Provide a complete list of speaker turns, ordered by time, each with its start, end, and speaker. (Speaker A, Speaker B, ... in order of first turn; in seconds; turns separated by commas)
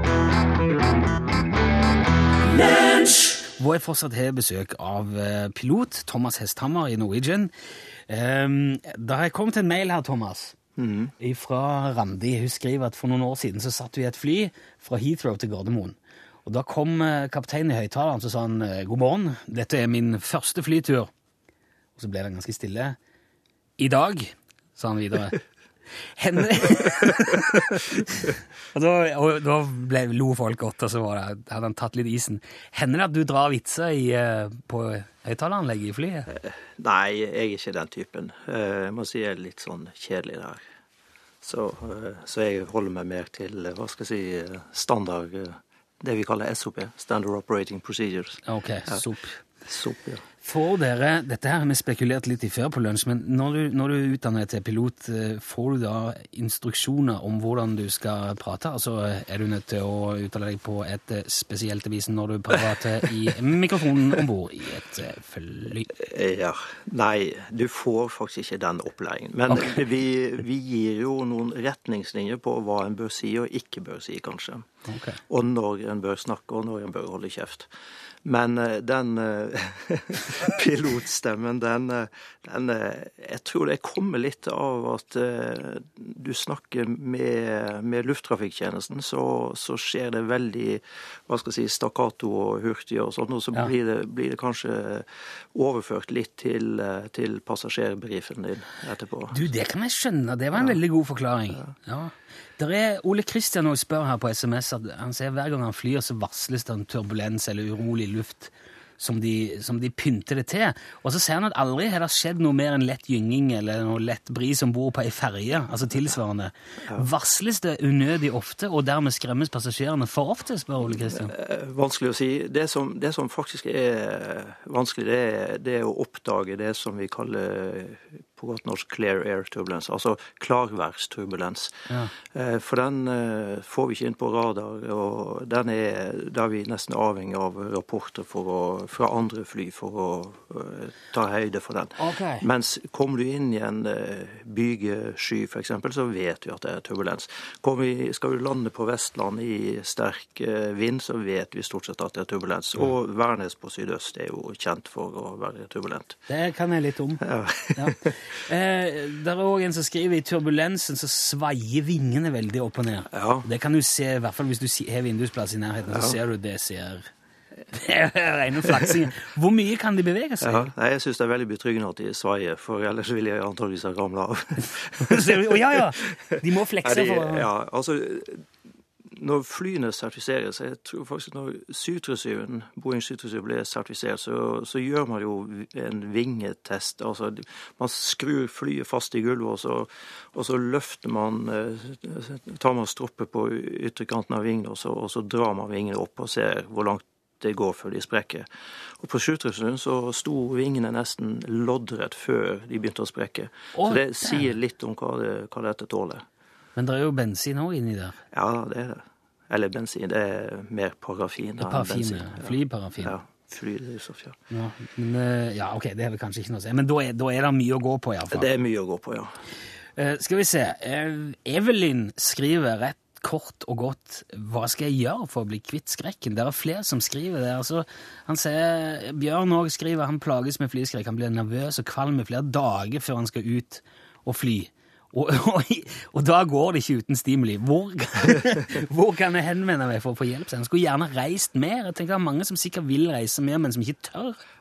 Speaker A: 2.5-10.6, Speaker B: 10.8-11.1, Speaker A: 11.2-21.1, Speaker A: 22.0-22.9, Speaker A: 23.8-25.4, Speaker A: 26.2-36.3, Speaker B: 36.3-40.6, Speaker B: 41.4-49.0, Speaker A: 48.5-49.4, Speaker B: 49.6-50.2, Speaker A: 50.4-65.9, Speaker B: 66.0-74.7, Speaker A: 69.5-69.8, Speaker A: 74.9-75.2, Speaker B: 75.3-77.7, Speaker B: 78.2-99.4, Speaker A: 99.3-121.3, Speaker B: 100.5-100.8, Speaker B: 120.9-156.2, Speaker A: 142.0-142.4, Speaker A: 156.3-167.1, Speaker B: 157.2-158.2, Speaker B: 163.1-163.5, Speaker B: 165.9-166.2, Speaker A: 167.7-170.7, Speaker B: 170.4-178.5, Speaker A: 175.0-177.5, Speaker B: 179.0-206.2, Speaker A: 203.7-204.5, Speaker A: 206.8-208.2, Speaker B: 208.3-214.4, Speaker A: 211.6-213.1, Speaker A: 214.5-218.5, Speaker B: 218.3-219.3, Speaker A: 219.9-244.4